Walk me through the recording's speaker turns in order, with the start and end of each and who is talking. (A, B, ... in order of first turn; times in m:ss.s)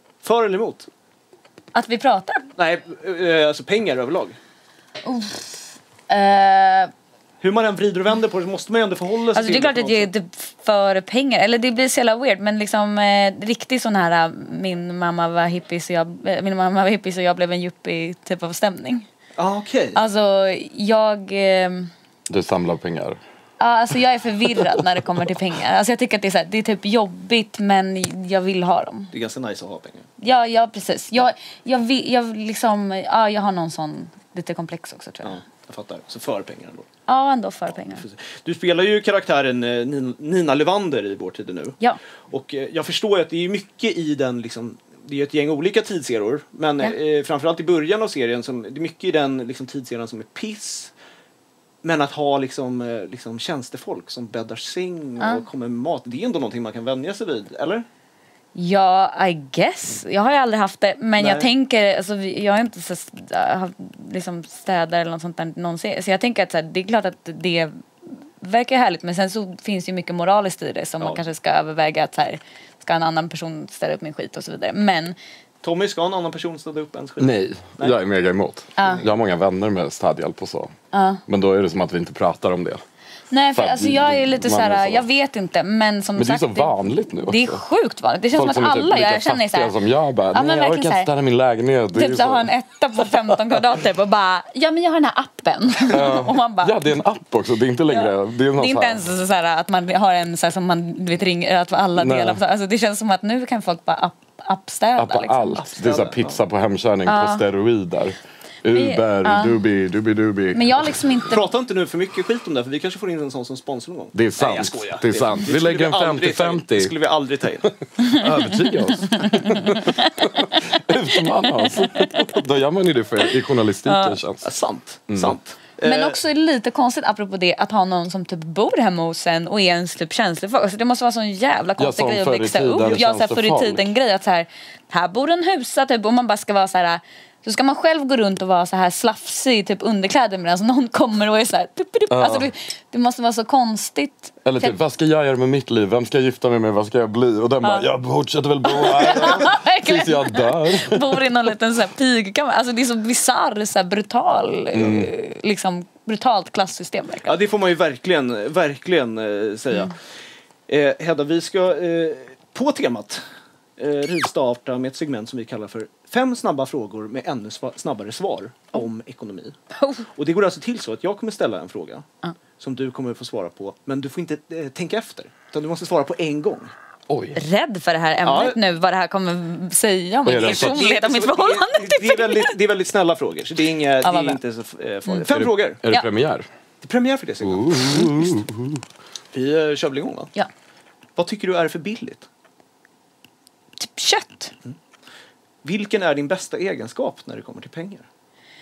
0:00.2-0:00.9 A
0:01.7-0:02.5 B
0:02.6-0:04.4 A
0:05.0-0:06.9 B
0:07.4-0:10.1 A
0:09.3-0:19.1 B
0:19.4-0:20.0 A
0:19.9-0:21.9 B
0:22.3-0:23.2 C
0:23.6-0:29.1 B
0:29.1-0:30.0 A
0:30.2-0:35.4 B
0:35.2-0:36.9 A
0:37.1-0:38.0 B
0:37.9-0:41.8 A
0:42.3-0:50.9 A
0:51.8-0:57.8 A
0:58.5-1:15.2 B
1:01.2-1:01.5 A
1:15.6-1:18.0 A
1:17.2-1:20.7 C
1:18.8-1:19.0 B
1:18.8-1:19.1 A
1:20.9-1:21.2 B
1:21.3-1:22.8 C
1:23.3-1:26.7 B
1:23.5-1:25.0 C
1:26.2-1:27.6 C
1:27.2-1:29.8 B
1:28.3-1:32.5 C
1:30.3-1:31.1 B
1:31.9-1:36.9 B
1:35.9-1:39.0 C
1:37.9-1:45.6 B
1:42.0-1:42.4 C
1:45.0-1:51.1 C
1:45.6-1:46.4 A
1:47.0-1:47.4 B
1:48.7-1:49.6 B
1:50.5-1:51.4 B
1:51.3-1:57.7 A
1:54.1-1:56.9 C
1:57.8-2:04.5 C
1:58.0-2:02.2 B
2:03.8-2:04.2 B
2:04.4-2:06.2 A
2:05.1-2:05.4 C
2:05.8-2:24.7 B
2:11.8-2:13.9 C
2:22.1-2:22.5 C
2:24.4-2:31.2 C
2:27.6-2:27.9 B
2:28.6-2:37.3 B
2:34.7-2:35.1 C
2:37.2-2:39.9 A
2:40.7-2:43.2 A
2:43.8-2:49.6 A
2:49.8-2:50.0 B
2:50.1-2:52.0 A
2:52.6-2:56.7 A
2:57.1-2:57.4 C
2:57.3-3:02.5 B
2:58.2-2:58.6 A
3:00.2-3:00.9 C
3:00.4-3:05.8 A
3:04.0-3:04.4 B
3:05.3-3:06.5 C
3:06.8-3:08.1 A
3:07.4-3:08.8 C
3:09.3-3:10.3 A
3:11.2-3:12.2 A
3:13.8-3:14.5 B
3:15.6-3:18.0 A